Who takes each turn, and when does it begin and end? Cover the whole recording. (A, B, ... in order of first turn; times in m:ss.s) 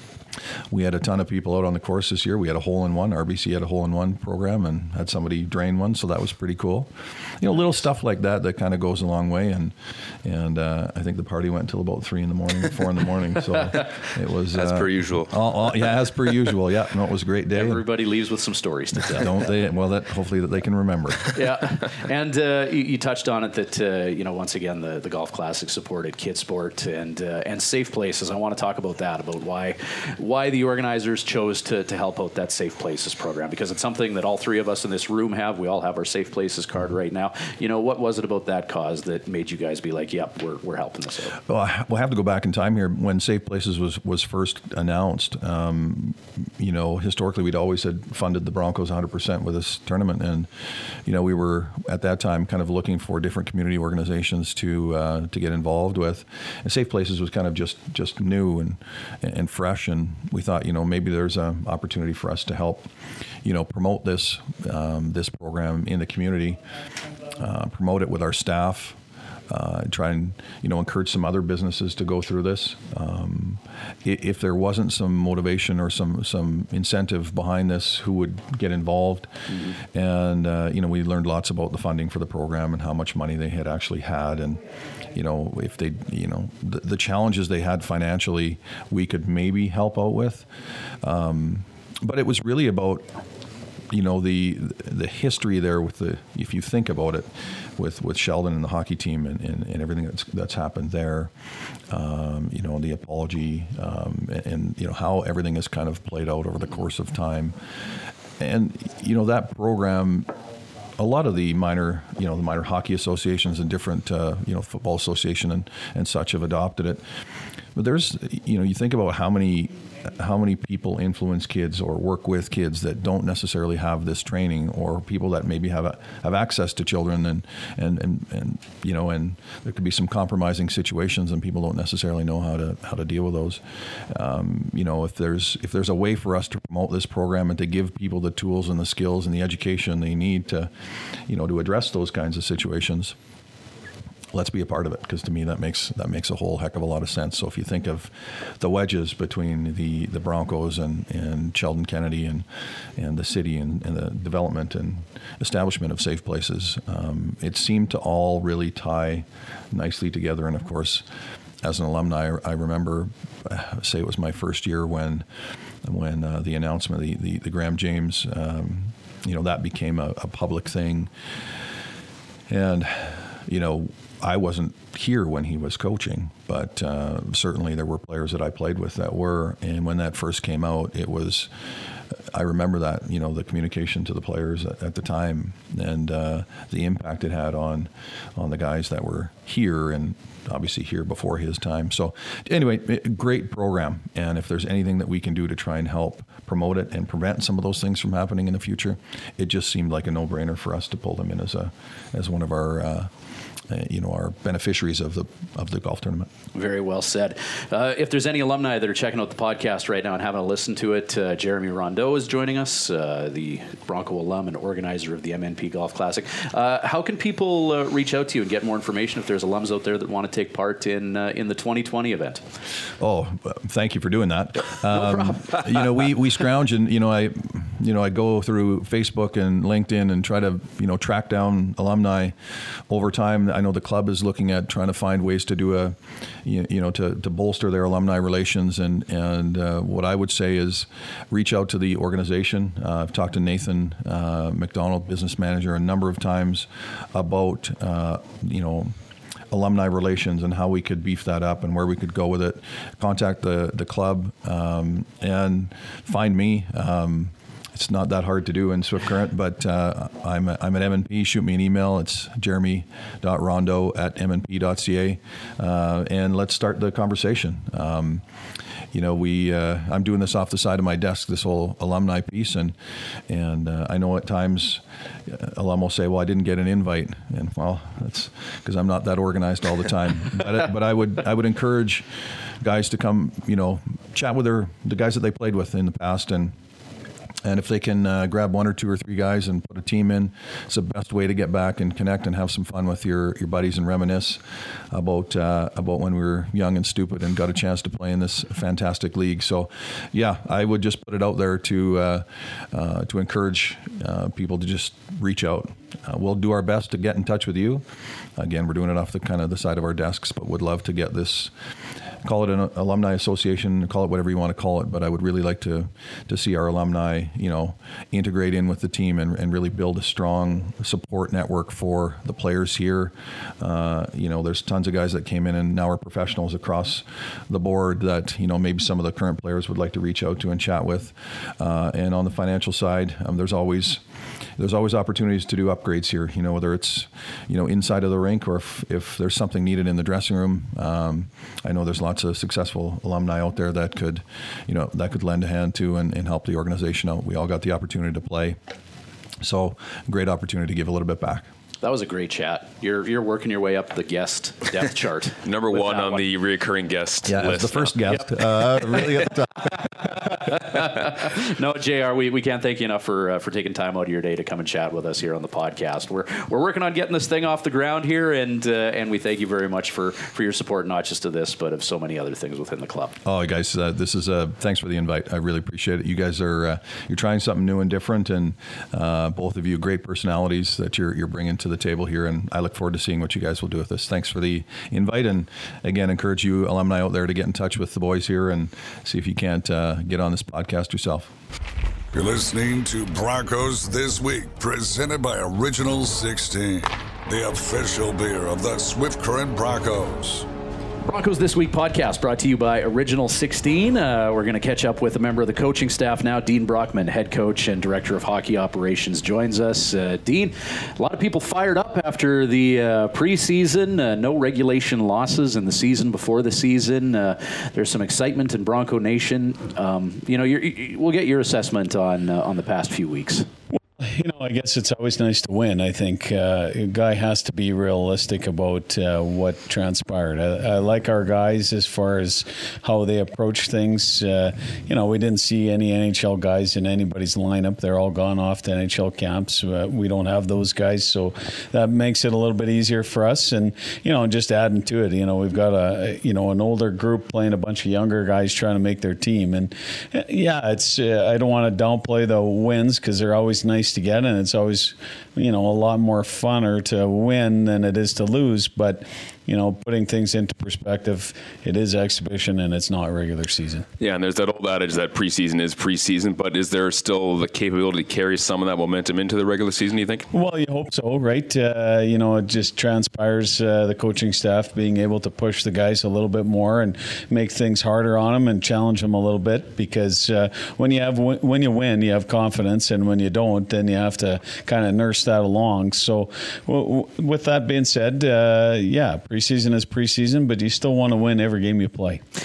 0:00.7-0:17.8 A
0:14.5-0:15.3 B
0:17.5-0:19.5 C
0:19.1-0:21.3 A
0:21.3-0:41.4 C
0:41.4-0:50.5 A
0:51.0-1:02.9 A
1:03.4-1:06.6 A
1:07.3-1:09.0 A
1:09.5-1:30.4 A
1:31.0-1:33.1 A
1:33.9-1:37.2 A
1:37.8-1:41.3 A
1:41.9-1:47.6 A
1:48.4-1:50.3 A
1:51.0-1:57.0 A
1:57.7-2:20.7 A
2:21.2-2:23.2 A
2:24.3-2:32.4 A
2:33.0-2:41.0 A
2:41.6-2:45.2 A
2:45.8-2:51.1 A
2:52.5-3:01.5 A
3:02.1-3:23.1 A
3:23.7-3:26.3 A
3:26.5-3:42.4 C
3:43.0-3:52.4 A
3:44.9-3:45.6 C
3:52.9-4:08.9 A
4:09.5-4:28.2 A
4:28.9-4:32.8 A
4:33.3-4:42.1 A
4:42.6-4:46.5 A
4:47.4-5:07.8 A
5:08.4-5:11.5 A
5:12.2-5:34.0 A
5:34.6-5:48.6 A
5:49.4-5:51.5 A
5:51.8-5:56.2 C
5:55.4-5:57.9 B
5:57.2-5:59.9 A
6:00.4-6:13.2 C
6:13.2-6:31.3 A
6:32.1-6:40.4 D
6:41.0-7:03.5 C
7:03.8-7:43.8 E
7:44.0-7:50.2 B
7:50.3-8:12.2 E